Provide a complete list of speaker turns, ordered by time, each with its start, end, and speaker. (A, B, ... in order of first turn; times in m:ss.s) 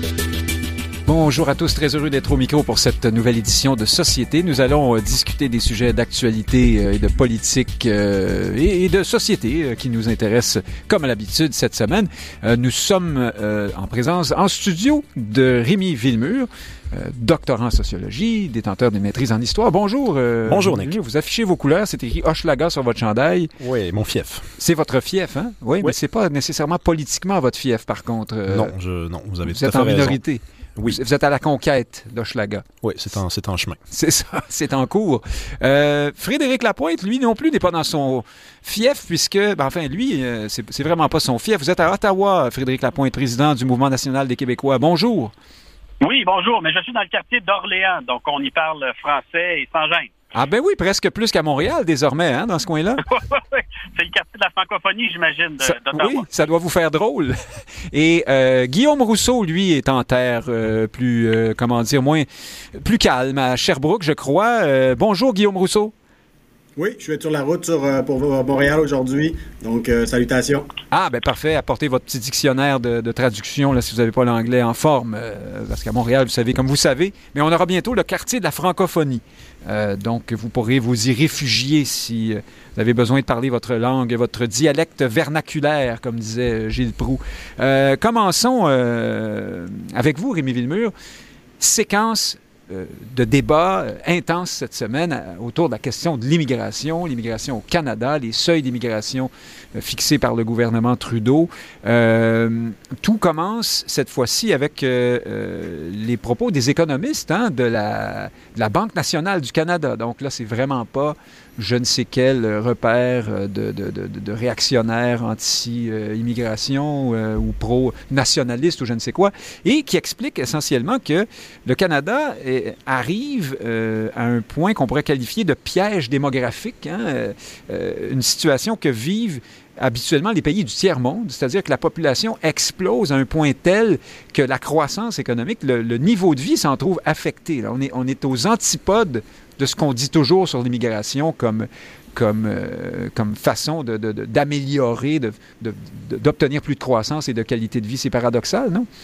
0:01.0-0:23.5 A
0:20.5-0:21.0 B
0:23.6-0:24.5 B
0:24.6-0:28.7 A
0:28.5-0:30.2 B
0:29.4-0:32.6 A
0:32.8-0:33.8 B
0:33.9-0:45.3 A
0:46.0-0:50.1 C
0:50.3-0:53.0 A
0:53.0-0:56.2 C
0:55.6-1:05.9 A
1:06.8-1:10.7 D
1:10.9-1:30.9 A
1:31.6-2:28.9 A